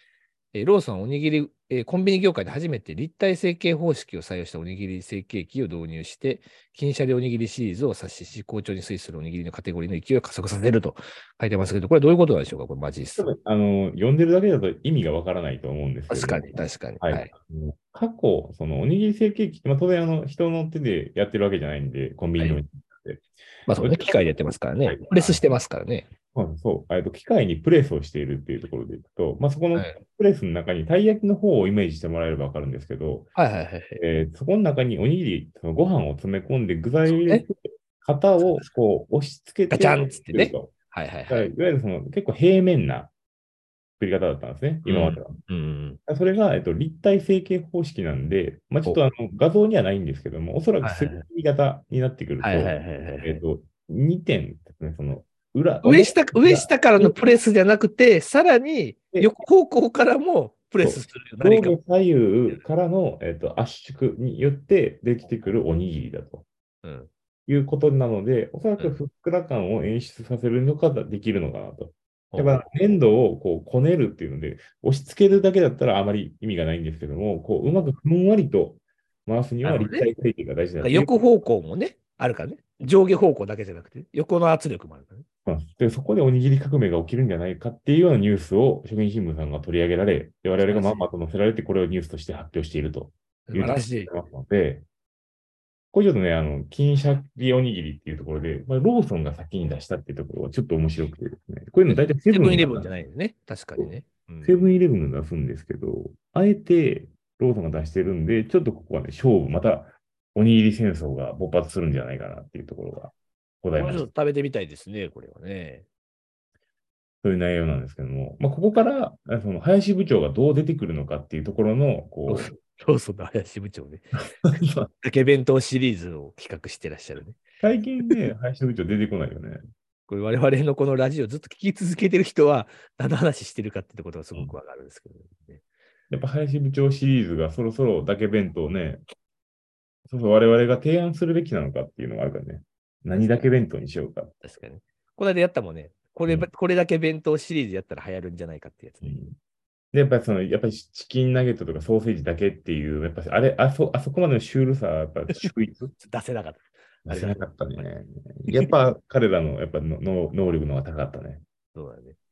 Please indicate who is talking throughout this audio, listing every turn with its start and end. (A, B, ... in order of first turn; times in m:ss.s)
0:00.5-0:13.3 A
0:13.2-0:23.2 B
0:16.1-0:17.3 A
0:23.7-0:26.1 A
0:23.8-0:25.4 B
0:26.3-0:33.3 B
0:29.7-0:30.0 A
0:33.4-0:34.0 A
0:34.0-0:40.7 B
0:39.7-0:41.5 A
0:41.3-0:43.1 B
0:44.0-0:45.4 B
0:44.8-0:46.0 A
0:46.0-0:57.2 B
0:50.8-0:51.2 A
0:52.4-0:53.4 A
0:55.8-1:01.8 A
1:00.8-1:06.4 B
1:06.8-1:07.1 A
1:07.5-1:21.1 B
1:12.3-1:12.7 A
1:19.6-1:20.1 A
1:20.8-1:25.2 A
1:25.4-1:34.8 B
1:30.6-1:31.1 A
1:33.5-1:34.1 A
1:35.9-1:42.9 B
1:41.9-1:44.6 A
1:44.4-1:54.1 B
1:53.8-1:55.8 A
1:57.2-2:02.5 B
2:02.3-2:04.0 A
2:04.5-2:04.9 B
2:05.0-2:07.4 A
2:07.6-2:09.6 B
2:10.1-2:15.6 A
2:16.1-2:19.0 B
2:20.1-2:24.3 B
2:23.1-2:23.5 A
2:24.4-2:29.2 A
2:29.0-2:29.4 B
2:29.9-2:35.9 B
2:35.3-2:37.8 A
2:37.0-2:41.4 B
2:41.7-2:42.2 A